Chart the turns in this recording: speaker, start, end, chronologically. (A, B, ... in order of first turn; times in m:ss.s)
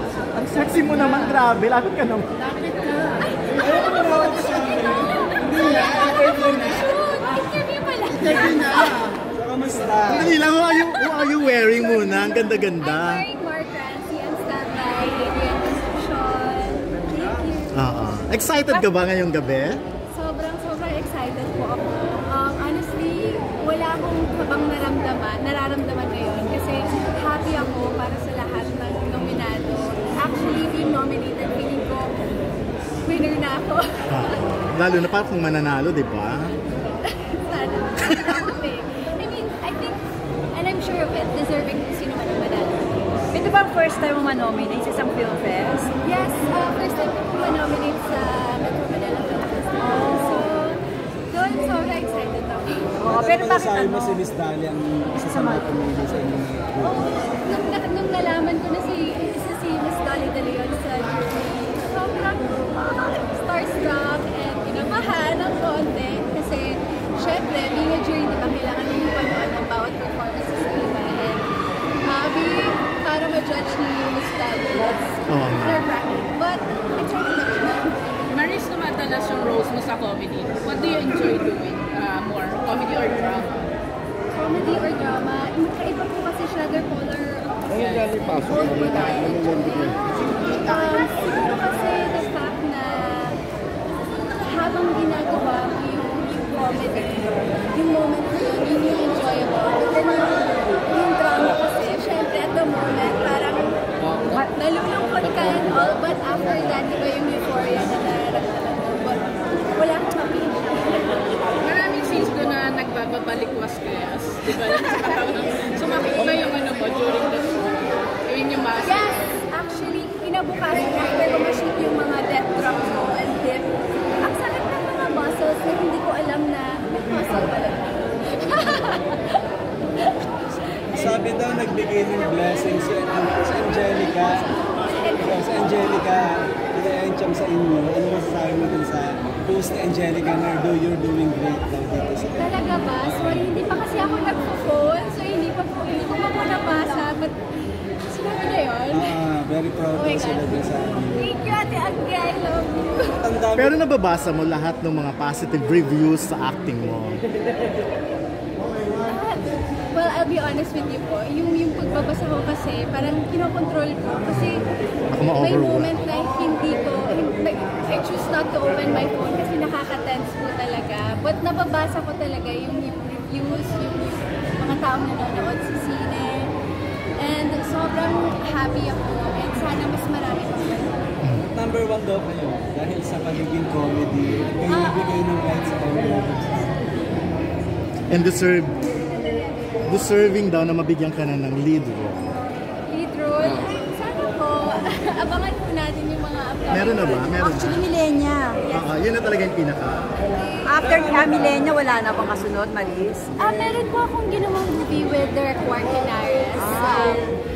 0:00.3-0:02.3 A
0:03.1-0:09.1 B
0:03.5-0:07.0 C
0:08.2-0:08.6 C
0:09.3-0:10.3 C
0:10.1-0:13.3 A
0:10.5-0:17.8 B
0:17.7-0:19.8 A
0:18.6-0:18.9 B
0:20.1-0:32.2 B
0:33.0-0:34.4 B
0:34.1-0:36.6 A
0:37.0-0:43.0 B
0:43.3-0:45.9 D
0:46.0-0:52.9 B
0:49.8-0:50.5 D
0:53.0-0:54.2 D
0:53.0-0:57.0 C
0:55.2-0:55.7 D
0:56.8-1:11.5 B
1:12.0-1:18.1 B
1:15.3-1:15.9 A
1:18.3-1:23.7 E
1:24.3-1:33.4 B
1:27.8-1:28.1 E
1:34.4-1:49.2 B
1:44.2-1:44.5 D
1:49.7-1:51.2 B
1:51.6-1:59.2 E
1:58.8-2:09.3 B
2:10.9-2:14.5 C
2:14.4-2:15.3 B
2:15.1-2:23.6 C
2:22.4-2:27.4 B
2:28.1-2:29.1 B
2:28.9-2:31.3 C
2:30.0-2:30.6 B
2:31.2-2:33.2 B
2:33.2-2:33.8 C
2:33.5-2:37.2 A
2:39.0-2:44.7 B
2:44.2-2:45.9 A
2:45.3-2:56.5 B
2:57.2-3:01.1 B
3:01.4-3:06.8 C
3:04.7-3:05.2 B
3:08.1-3:08.9 A
3:09.0-3:09.6 B
3:09.8-3:12.4 A
3:12.9-3:17.5 B
3:16.7-3:17.9 A
3:17.4-3:18.6 D
3:18.7-3:20.1 A
3:20.3-3:20.9 B
3:20.6-3:23.3 D
3:20.8-3:21.6 C
3:23.4-3:27.3 B
3:26.6-3:27.2 D